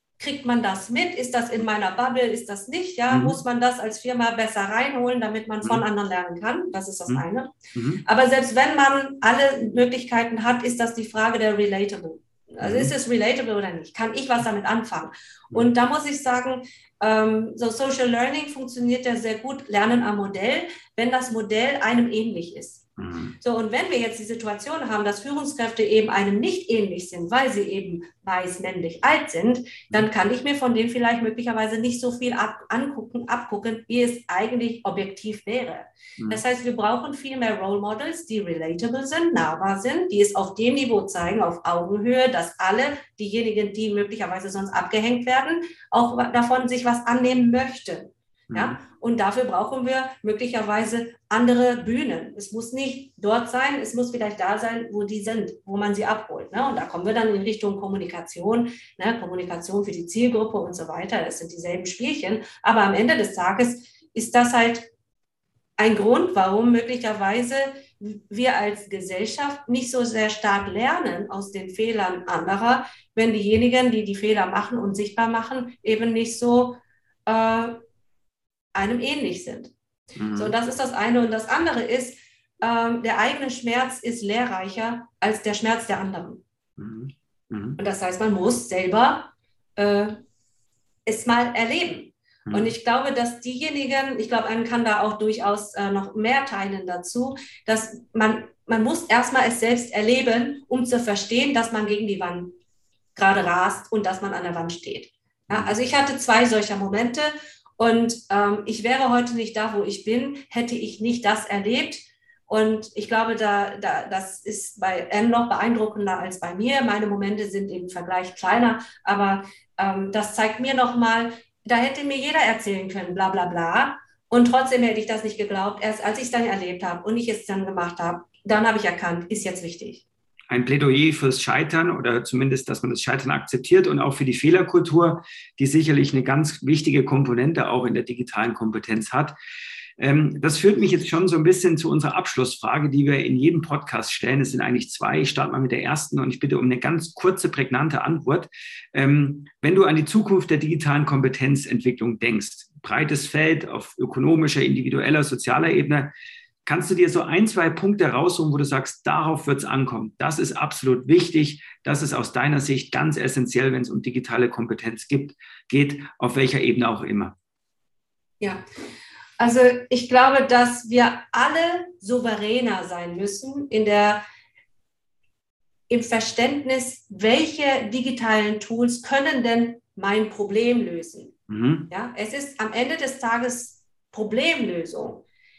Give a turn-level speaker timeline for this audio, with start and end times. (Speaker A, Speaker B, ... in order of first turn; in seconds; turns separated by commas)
Speaker A: 0.2-7.5, Speaker B: 3.1-3.4, Speaker B: 7.7-8.0, Speaker A: 8.0-22.8, Speaker B: 12.6-12.9, Speaker B: 23.0-23.4, Speaker A: 23.4-64.9, Speaker B: 48.5-48.8, Speaker A: 65.8-77.8, Speaker A: 78.7-79.7, Speaker B: 80.2-80.5, Speaker A: 80.3-86.4, Speaker B: 86.8-87.8, Speaker A: 87.8-90.2, Speaker A: 91.0-102.5, Speaker B: 92.5-92.7, Speaker A: 103.1-130.0, Speaker B: 105.5-105.7, Speaker B: 130.5-139.3, Speaker B: 140.0-156.1, Speaker B: 156.7-167.3, Speaker A: 169.4-174.2, Speaker A: 175.9-181.3, Speaker B: 181.5-181.9, Speaker A: 181.9-185.2